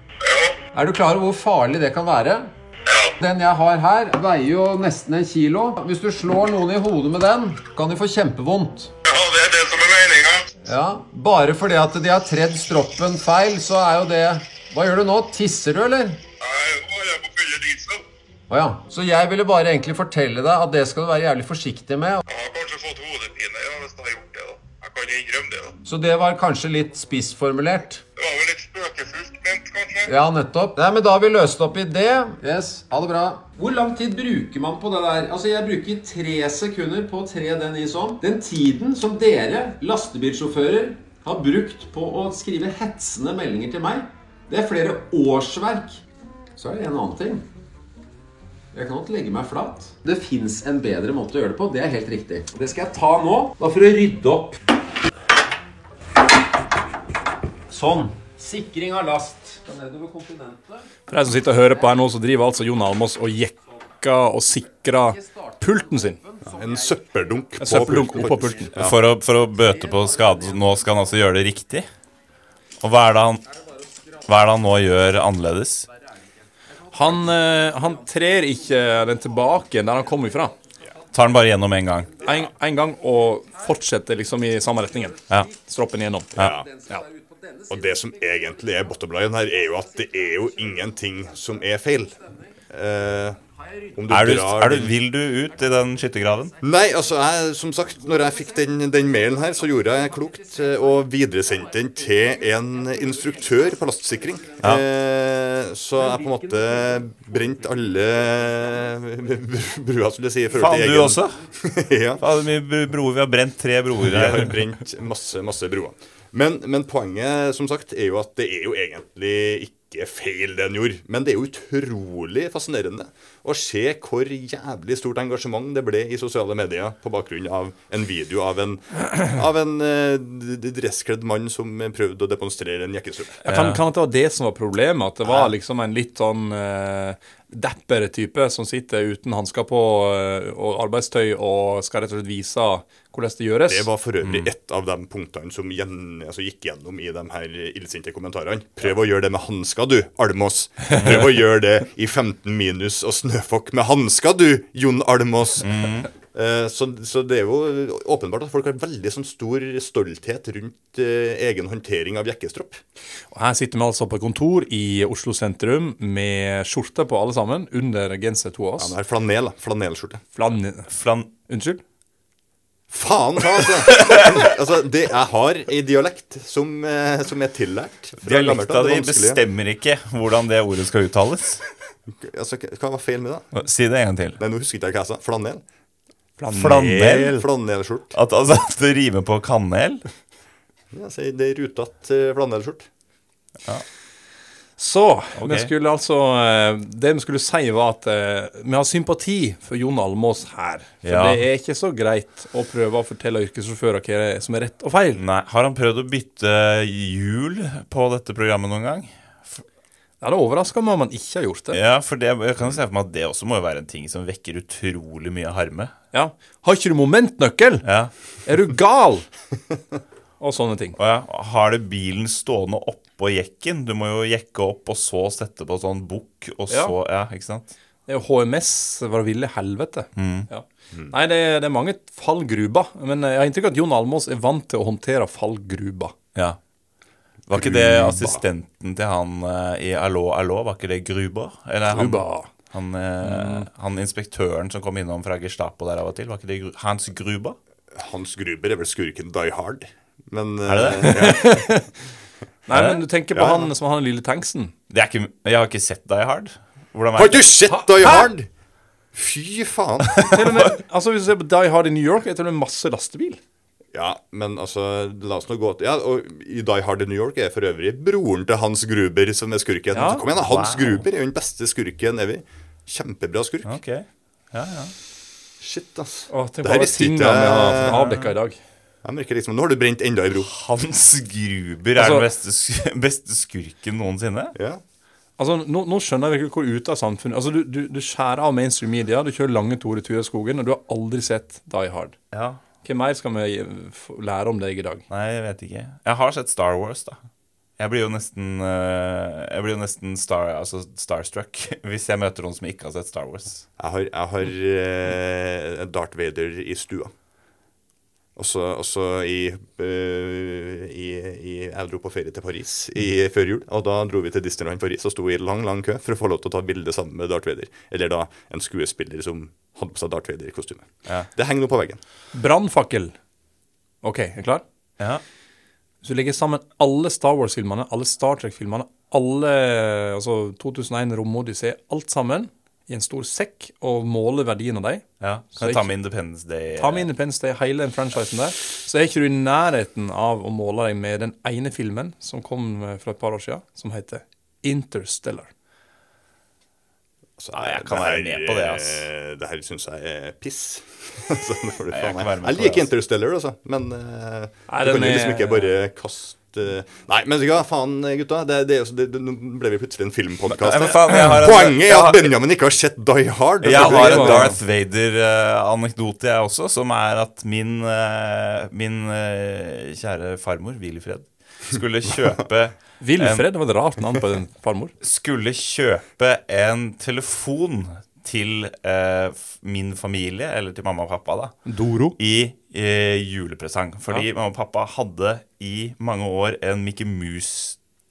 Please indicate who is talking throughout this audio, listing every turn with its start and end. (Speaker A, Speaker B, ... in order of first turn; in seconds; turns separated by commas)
Speaker A: 0.2-0.6, Speaker B: 0.7-2.5, Speaker A: 2.9-3.1, Speaker B: 3.2-8.9, Speaker A: 9.0-10.4, Speaker B: 10.6-16.2, Speaker A: 16.4-18.0, Speaker B: 18.5-22.2, Speaker A: 22.3-25.8, Speaker B: 25.8-28.0, Speaker A: 28.1-30.1, Speaker B: 30.1-46.0, Speaker B: 46.6-47.5, Speaker B: 48.7-54.6, Speaker B: 57.7-60.9, Speaker C: 61.1-66.2, Speaker B: 65.1-67.2, Speaker D: 66.4-69.1, Speaker C: 67.6-68.7, Speaker E: 68.7-71.9, Speaker B: 69.6-71.0, Speaker E: 72.8-73.5, Speaker B: 73.7-74.3, Speaker E: 74.2-75.9, Speaker B: 76.7-81.1, Speaker C: 76.9-80.5, Speaker E: 81.1-82.2, Speaker B: 82.0-82.5, Speaker C: 82.2-86.3, Speaker B: 84.6-85.5, Speaker D: 86.3-86.7, Speaker B: 86.3-88.8, Speaker D: 87.7-93.4, Speaker B: 89.6-90.9, Speaker B: 92.2-92.5, Speaker B: 93.4-94.0, Speaker D: 93.9-95.0, Speaker E: 94.1-96.5, Speaker B: 95.5-97.0, Speaker D: 96.6-112.4, Speaker B: 98.1-104.7, Speaker B: 106.0-107.0, Speaker B: 107.9-108.7, Speaker E: 110.6-111.4, Speaker E: 112.2-114.5, Speaker D: 114.0-133.4, Speaker C: 133.4-143.9, Speaker E: 133.5-133.8, Speaker D: 135.2-135.5, Speaker D: 143.7-155.7, Speaker E: 144.2-144.5, Speaker E: 150.9-151.4, Speaker E: 155.6-156.1, Speaker D: 156.3-162.8, Speaker C: 163.3-168.9, Speaker D: 168.8-170.2, Speaker C: 170.3-170.9, Speaker E: 170.9-171.3, Speaker C: 171.5-171.8, Speaker D: 172.9-179.4, Speaker E: 178.2-181.6, Speaker D: 182.1-183.6, Speaker E: 183.5-184.4, Speaker D: 184.4-185.6, Speaker C: 186.4-187.2, Speaker E: 186.5-187.4, Speaker D: 186.5-188.1, Speaker E: 188.1-190.0, Speaker D: 190.9-192.9, Speaker C: 194.8-205.2, Speaker E: 195.3-195.7, Speaker E: 201.0-201.4, Speaker E: 205.2-209.6, Speaker C: 210.2-211.8, Speaker E: 211.7-215.9, Speaker C: 216.1-217.9, Speaker E: 217.8-218.1, Speaker C: 218.4-219.2, Speaker C: 220.4-221.0, Speaker E: 221.0-227.7, Speaker C: 226.7-226.9, Speaker C: 228.1-236.1, Speaker E: 230.2-230.5, Speaker E: 237.5-247.6, Speaker D: 237.5-238.4, Speaker C: 241.9-242.5, Speaker C: 243.2-243.7, Speaker D: 247.9-251.6, Speaker E: 250.7-251.4, Speaker C: 251.0-251.9, Speaker C: 252.7-254.7, Speaker E: 252.7-253.0, Speaker D: 253.3-253.7, Speaker E: 254.9-257.5, Speaker D: 257.1-258.5, Speaker C: 257.7-258.2, Speaker D: 259.1-260.4, Speaker E: 260.1-260.5, Speaker C: 260.2-263.4, Speaker D: 263.9-273.8, Speaker C: 269.9-270.2, Speaker E: 270.2-271.0, Speaker E: 273.6-274.9, Speaker D: 275.6-278.1, Speaker C: 276.3-278.6, Speaker D: 279.0-280.5, Speaker E: 280.5-284.5, Speaker C: 281.9-282.2, Speaker D: 284.5-284.8, Speaker C: 285.4-292.1, Speaker E: 292.3-292.6, Speaker C: 292.8-295.0, Speaker E: 295.1-297.2, Speaker E: 297.8-303.6, Speaker D: 303.8-307.1, Speaker D: 308.4-322.0, Speaker C: 322.3-323.1, Speaker C: 324.0-324.6, Speaker C: 326.0-335.0, Speaker E: 335.2-337.1, Speaker C: 335.6-335.9, Speaker C: 336.8-345.5, Speaker D: 347.4-364.6, Speaker E: 347.5-349.0, Speaker E: 351.9-352.8, Speaker C: 354.7-355.7, Speaker E: 360.5-362.3, Speaker E: 363.6-373.4, Speaker C: 363.7-364.6, Speaker C: 373.0-374.9, Speaker E: 375.0-387.8, Speaker C: 381.6-382.1